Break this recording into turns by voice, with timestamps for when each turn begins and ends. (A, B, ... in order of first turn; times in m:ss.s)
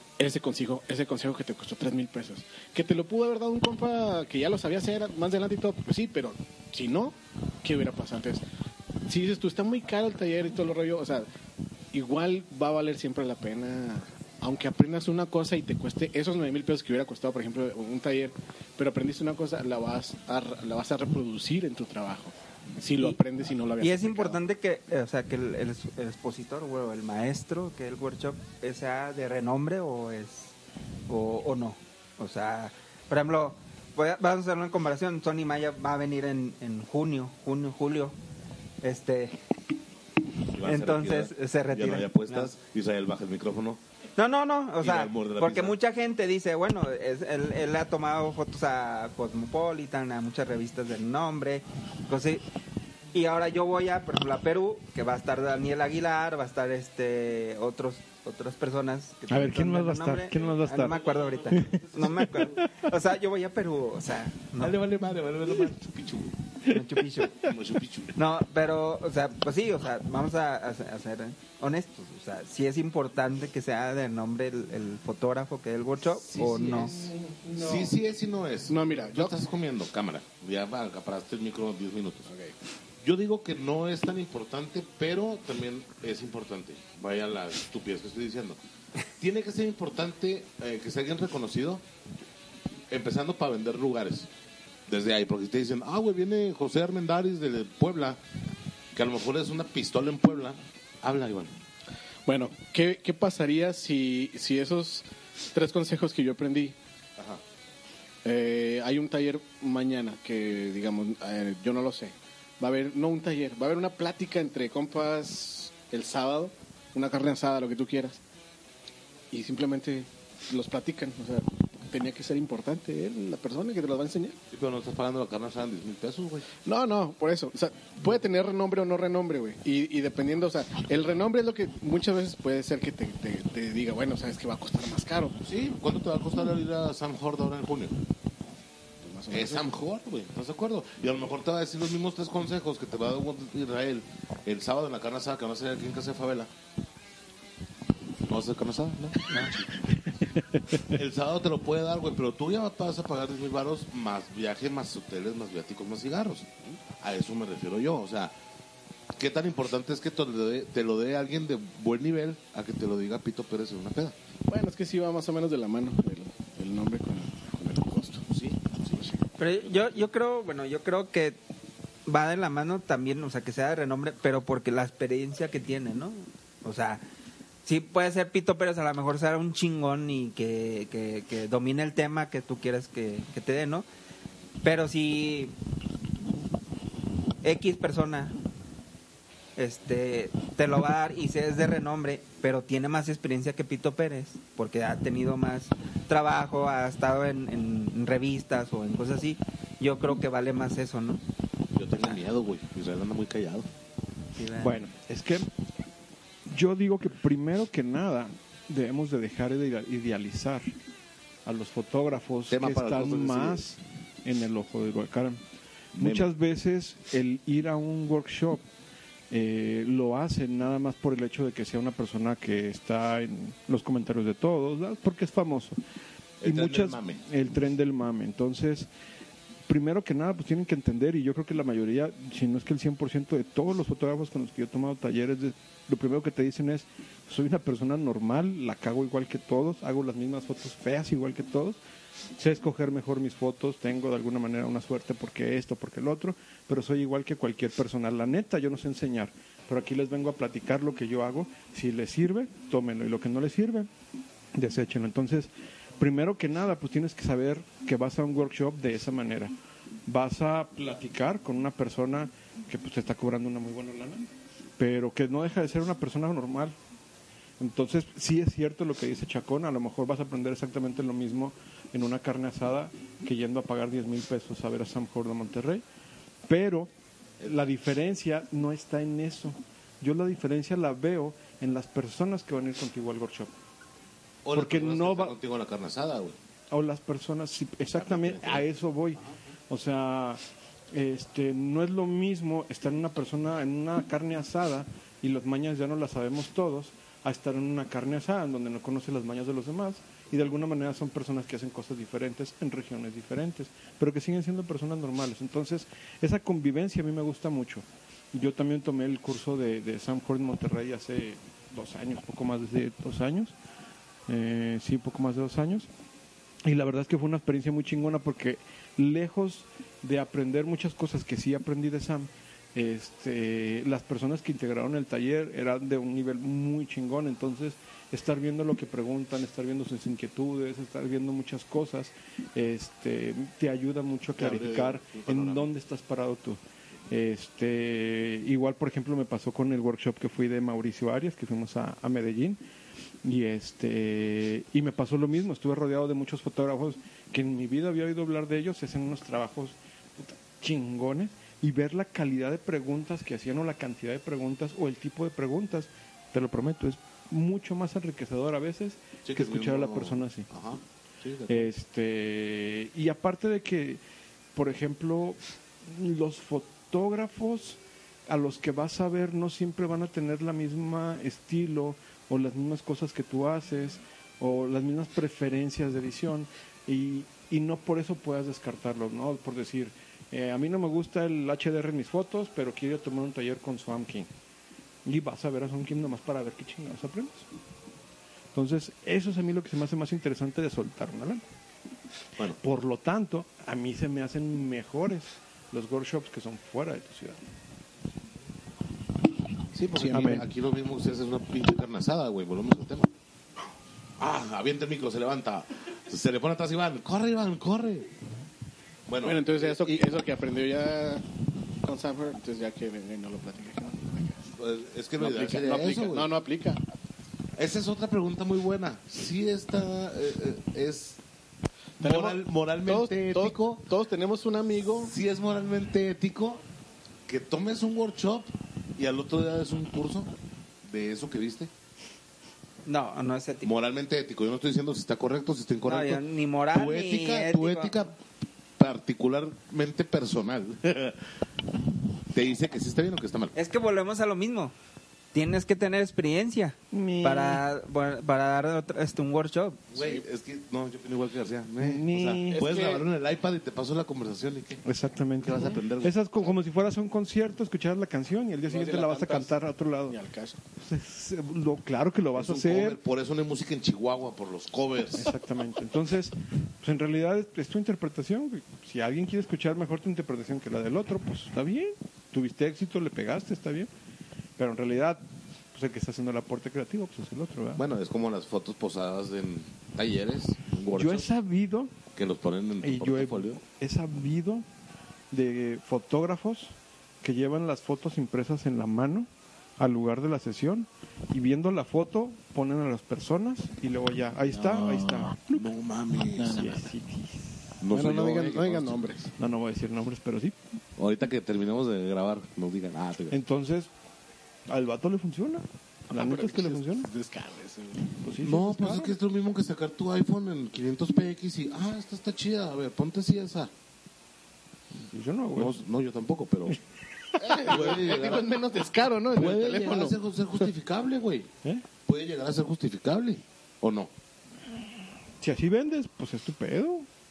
0:00.2-0:08.4 A
0:09.1-0:11.3 A
0:11.9-0:24.4 A
0:23.8-0:30.5 B
0:31.1-0:38.2 B
0:38.8-0:39.4 B
0:40.5-0:43.8 C
0:40.6-0:42.5 B
0:44.2-0:52.4 B
0:44.8-0:45.8 C
0:53.1-1:04.8 B
0:59.3-1:01.0 D
1:00.8-1:02.4 C
1:01.5-1:02.9 D
1:04.6-1:06.6 C
1:06.7-1:07.4 B
1:07.4-1:08.2 C
1:08.2-1:17.0 B
1:16.2-1:22.3 C
1:18.7-1:19.4 A
1:22.3-1:22.5 A
1:23.0-1:28.6 C
1:29.2-1:31.8 C
1:32.9-1:34.3 C
1:34.9-1:38.2 C
1:38.9-1:41.5 C
1:42.2-1:46.8 A
1:48.2-1:58.2 A
1:59.3-2:04.4 A
2:04.5-2:06.5 C
2:06.6-2:15.4 A
2:15.4-2:18.0 C
2:19.0-2:19.7 A
2:19.3-2:26.5 C
2:28.2-2:30.1 C
2:30.5-2:30.8 D
2:30.8-2:36.5 C
2:37.0-2:38.4 C
2:39.2-2:44.2 C
2:44.5-2:48.3 A
2:48.3-2:48.9 C
2:48.9-2:49.2 A
2:49.4-2:51.4 B
2:52.1-2:57.0 B
2:57.6-3:03.8 B
3:04.6-3:05.5 B
3:07.4-3:08.3 B
3:09.6-3:21.2 B
3:21.7-3:23.7 C
3:24.4-3:24.8 B
3:24.6-3:25.5 D
3:26.5-3:30.7 D
3:31.4-3:35.4 D
3:32.5-3:33.6 C
3:36.0-3:36.3 C
3:36.0-3:38.6 D
3:39.3-3:45.8 D
3:46.4-3:47.2 C
3:46.4-3:48.9 D
3:49.7-4:01.8 D
4:02.4-4:13.9 D
4:14.6-4:19.5 D
4:20.1-4:24.3 D
4:24.8-4:26.8 D
4:27.6-4:35.8 D
4:36.5-4:36.9 D
4:37.4-4:43.5 D
4:44.4-4:46.4 C
4:44.5-4:45.4 D
4:46.7-4:50.4 D
4:47.9-4:48.7 C
4:50.9-5:13.6 D
5:14.3-5:15.9 D
5:16.6-5:42.6 D
5:34.4-5:35.7 C
5:43.2-6:00.5 D
5:59.2-6:01.7 C
6:01.5-6:04.0 D
6:04.6-6:24.3 D
6:25.0-6:27.5 D
6:28.5-6:31.4 D
6:32.6-6:37.4 D
6:39.7-6:43.1 C
6:40.0-6:40.5 D
6:44.2-6:48.1 C
6:49.1-6:50.0 C
6:49.2-6:51.2 A
6:51.8-6:54.5 A
6:54.5-6:56.3 C
6:55.2-6:56.8 A
6:57.6-7:01.2 C
7:02.0-7:03.8 C
7:02.0-7:05.1 A
7:05.0-7:06.6 C
7:07.2-7:10.3 C
7:10.8-7:11.7 C
7:12.8-7:13.7 B
7:13.6-7:18.2 C
7:15.8-7:18.0 B
7:18.8-7:21.2 C
7:22.3-7:23.5 C
7:23.5-7:24.7 B
7:25.3-7:29.8 B
7:26.9-7:27.6 D
7:29.9-7:34.8 C
7:30.0-7:30.2 A
7:31.8-7:32.6 D
7:32.5-7:33.0 A
7:34.8-7:40.2 D
7:35.4-7:36.6 C
7:38.7-7:40.6 A
7:40.8-7:43.0 D
7:42.4-7:45.3 C
7:45.1-7:53.9 D
7:54.6-7:57.8 D
7:57.8-8:01.3 C
8:00.9-8:01.9 D
8:02.1-8:03.6 C
8:02.8-8:04.6 D
8:05.3-8:09.3 D
8:09.8-8:15.7 D
8:14.5-8:15.3 A
8:15.5-8:16.6 C
8:16.4-8:16.9 A
8:16.4-8:17.8 D
8:17.8-8:19.0 C
8:17.9-8:19.3 A
8:19.4-8:20.6 D
8:21.0-8:23.4 C
8:23.3-8:23.9 D
8:24.7-8:27.1 D
8:26.1-8:28.1 A
8:28.1-8:29.1 D
8:28.4-8:33.7 C
8:35.0-8:35.8 D
8:35.6-8:36.8 C
8:37.4-8:40.2 A
8:37.6-8:38.6 C
8:39.3-8:41.5 C
8:42.0-8:44.1 C
8:45.4-8:47.1 D